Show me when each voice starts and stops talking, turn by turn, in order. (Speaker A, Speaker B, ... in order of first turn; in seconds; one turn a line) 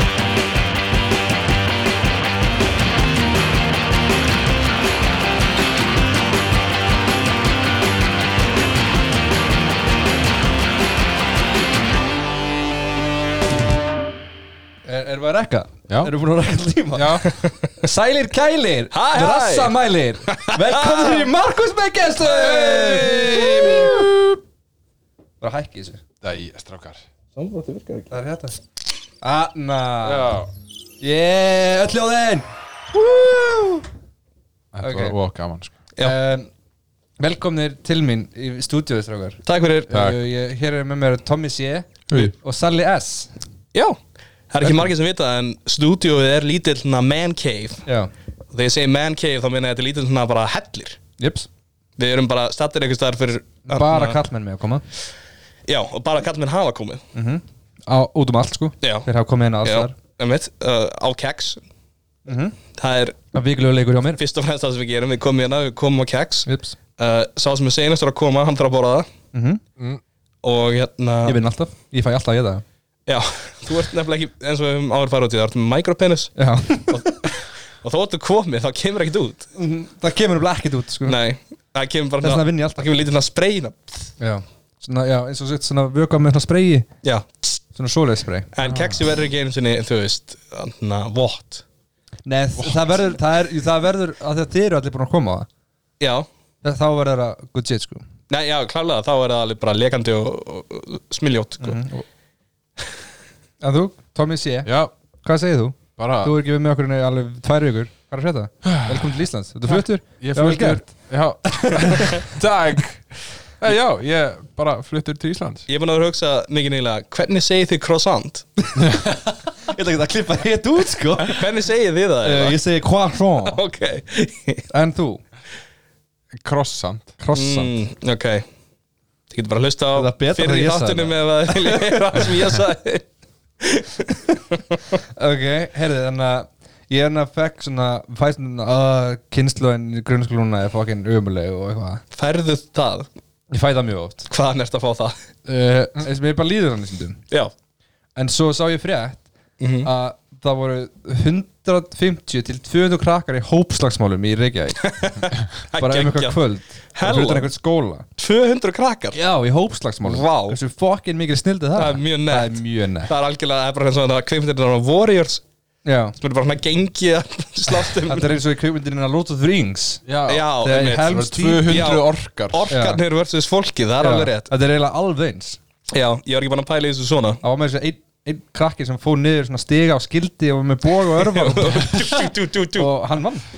Speaker A: 14.8-24.3
Speaker B: 16.9-17.4
Speaker C: 17.2-17.7
Speaker C: 18.9-19.7
Speaker C: 20.3-21.3
Speaker B: 22.3-24.1
Speaker C: 22.4-24.1
Speaker A: 25.4-26.0
Speaker B: 26.2-27.0
Speaker C: 27.3-28.1
Speaker A: 28.1-28.6
Speaker A: 29.2-30.4
Speaker B: 30.0-30.5
Speaker A: 31.0-33.9
Speaker B: 34.7-35.7
Speaker A: 34.8-35.1
Speaker A: 36.0-36.5
Speaker A: 37.2-43.3
Speaker C: 39.5-39.9
Speaker B: 39.9-40.2
Speaker C: 44.5-47.8
Speaker A: 44.6-44.9
Speaker A: 47.9-48.1
Speaker C: 48.5-51.0
Speaker A: 51.2-51.5
Speaker C: 52.0-54.2
Speaker A: 53.6-54.8
Speaker C: 55.7-57.0
Speaker A: 57.1-60.0
Speaker C: 58.8-59.1
Speaker C: 59.6-61.6
Speaker A: 62.2-62.6
Speaker C: 62.8-63.1
Speaker A: 63.3-64.2
Speaker C: 64.2-66.5
Speaker A: 66.5-66.8
Speaker C: 67.0-69.1
Speaker A: 69.3-69.6
Speaker C: 70.4-71.4
Speaker A: 71.2-72.6
Speaker C: 73.1-76.3
Speaker A: 76.4-77.2
Speaker C: 76.9-79.5
Speaker A: 79.5-81.2
Speaker C: 81.0-83.8
Speaker A: 82.2-82.8
Speaker A: 84.2-86.9
Speaker A: 87.7-88.5
Speaker C: 88.5-91.6
Speaker B: 88.6-89.0
Speaker A: 92.2-95.5
Speaker C: 96.0-96.3
Speaker A: 96.6-98.0
Speaker C: 98.3-101.8
Speaker A: 101.6-102.0
Speaker A: 103.6-110.9
Speaker B: 104.6-104.9
Speaker B: 106.0-106.3
Speaker B: 108.6-115.6
Speaker A: 111.4-112.3
Speaker C: 115.7-118.6
Speaker B: 118.8-119.1
Speaker A: 119.0-121.5
Speaker C: 121.3-122.6
Speaker A: 122.2-123.6
Speaker C: 123.4-124.7
Speaker A: 124.7-125.2
Speaker B: 126.3-127.1
Speaker A: 127.2-127.7
Speaker C: 127.3-128.4
Speaker C: 129.3-133.0
Speaker A: 129.9-132.3
Speaker C: 133.6-134.8
Speaker A: 135.1-142.0
Speaker C: 142.1-143.1
Speaker A: 143.5-144.3
Speaker C: 144.3-145.1
Speaker A: 145.4-147.2
Speaker A: 148.2-149.2
Speaker C: 149.6-149.9
Speaker A: 149.8-154.8
Speaker C: 154.8-156.4
Speaker A: 155.8-158.1
Speaker C: 156.9-157.5
Speaker C: 158.2-159.2
Speaker A: 159.1-163.1
Speaker C: 160.0-160.6
Speaker C: 161.8-165.4
Speaker A: 165.8-166.1
Speaker C: 166.2-168.4
Speaker A: 167.7-170.0
Speaker B: 170.1-172.7
Speaker C: 170.3-174.5
Speaker A: 170.6-171.8
Speaker A: 172.7-173.0
Speaker A: 174.0-175.6
Speaker C: 175.9-177.4
Speaker A: 177.4-182.2
Speaker C: 181.1-182.9
Speaker A: 182.7-183.5